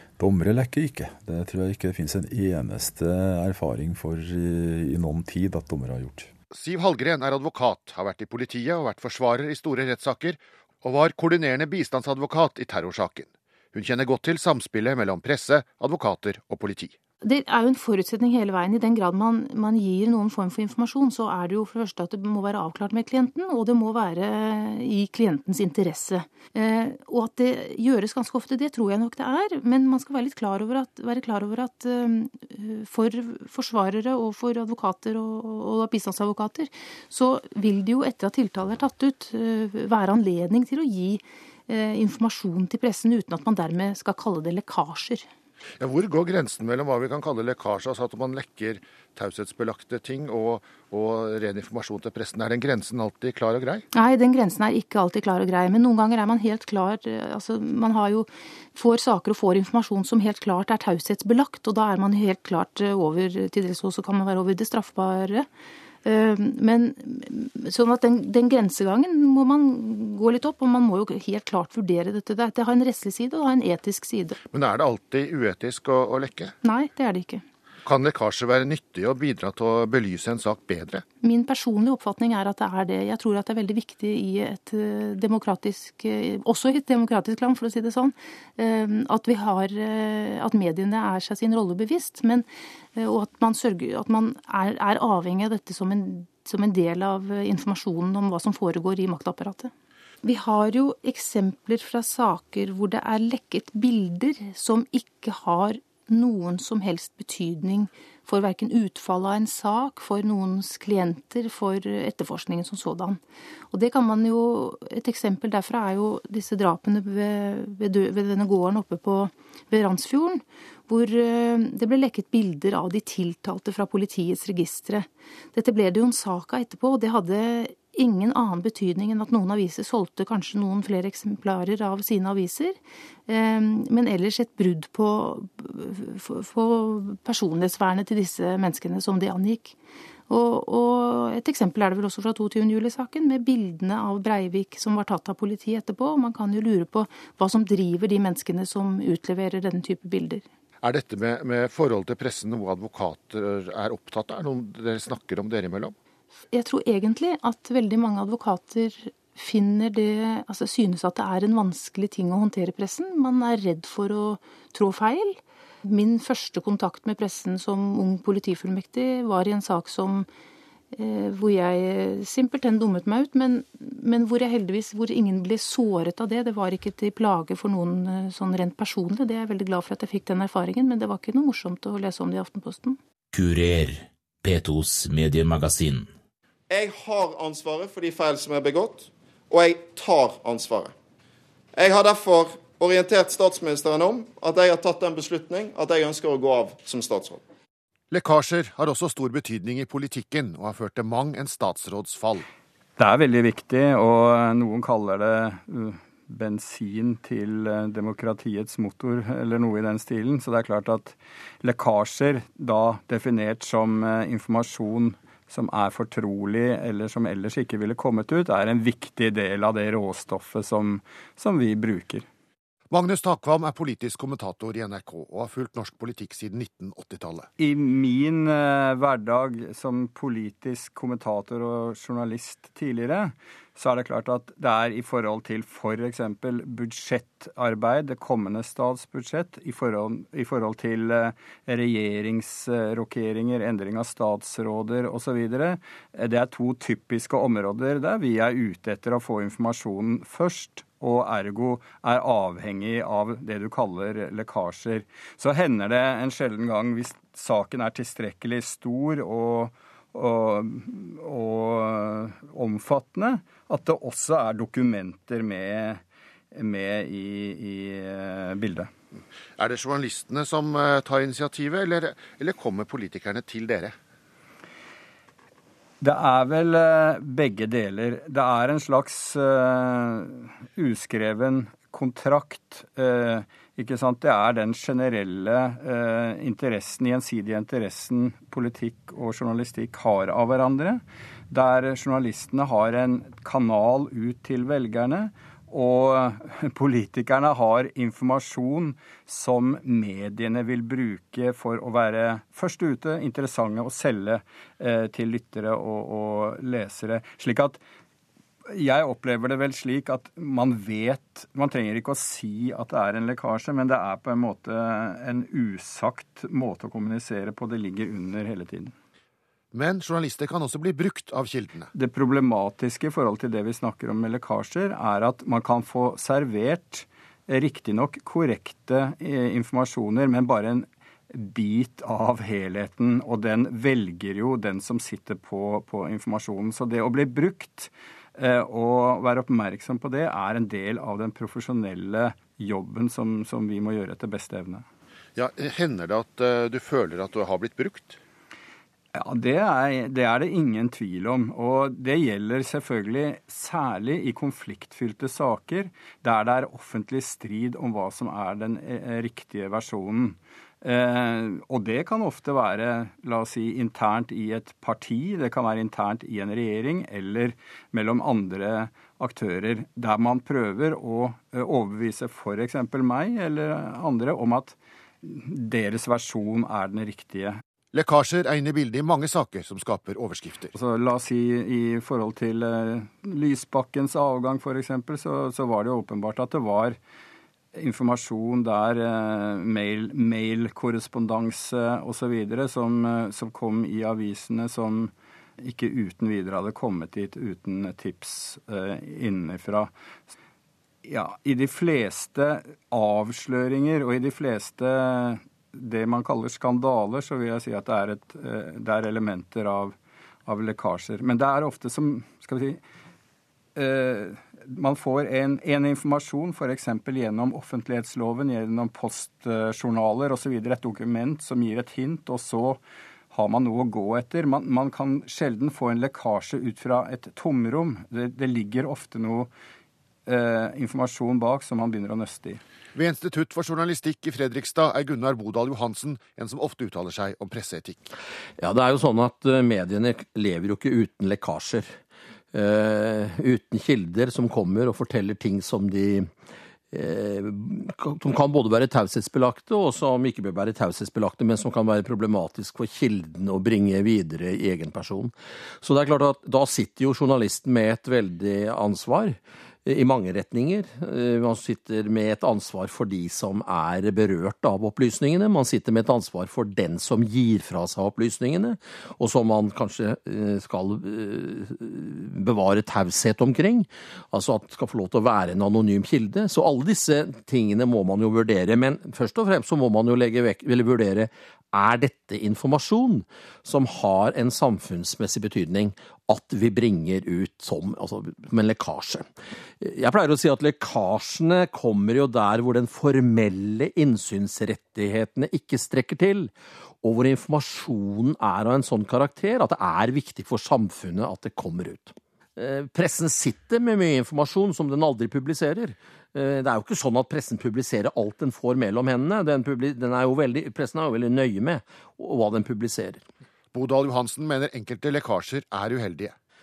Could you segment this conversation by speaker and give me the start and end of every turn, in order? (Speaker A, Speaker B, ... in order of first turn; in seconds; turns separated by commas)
Speaker A: 0.2-6.3, Speaker B: 6.5-16.9, Speaker C: 17.2-45.3, Speaker B: 45.8-53.8, Speaker C: 53.9-65.5, Speaker C: 66.0-74.4, Speaker B: 74.5-76.5, Speaker C: 76.6-77.4, Speaker B: 77.8-81.0, Speaker C: 81.2-99.7, Speaker C: 100.2-113.2, Speaker C: 113.7-132.8, Speaker C: 133.3-139.7, Speaker C: 140.3-150.4, Speaker B: 150.8-155.9, Speaker C: 156.5-170.3, Speaker C: 170.9-183.0, Speaker D: 183.3-186.1, Speaker E: 186.7-190.9, Speaker E: 191.7-197.4, Speaker B: 198.1-202.4, Speaker F: 203.0-222.2, Speaker B: 222.9-227.5, Speaker F: 227.6-266.0, Speaker F: 266.5-268.9, Speaker B: 269.6-273.9, Speaker F: 276.0-307.8, Speaker F: 308.7-318.9, Speaker B: 319.7-321.9, Speaker F: 321.9-344.8, Speaker B: 345.4-348.2, Speaker F: 349.1-377.6, Speaker B: 377.9-380.7, Speaker F: 380.7-387.0, Speaker F: 387.7-399.9, Speaker F: 401.0-409.9, Speaker F: 410.4-412.8, Speaker F: 413.8-422.8, Speaker F: 423.3-429.5, Speaker F: 430.2-432.6, Speaker B: 432.9-438.1, Speaker G: 438.6-441.9, Speaker G: 442.5-446.3, Speaker G: 446.9-489.3, Speaker G: 489.8-496.5, Speaker G: 497.0-513.2, Speaker B: 513.7-516.3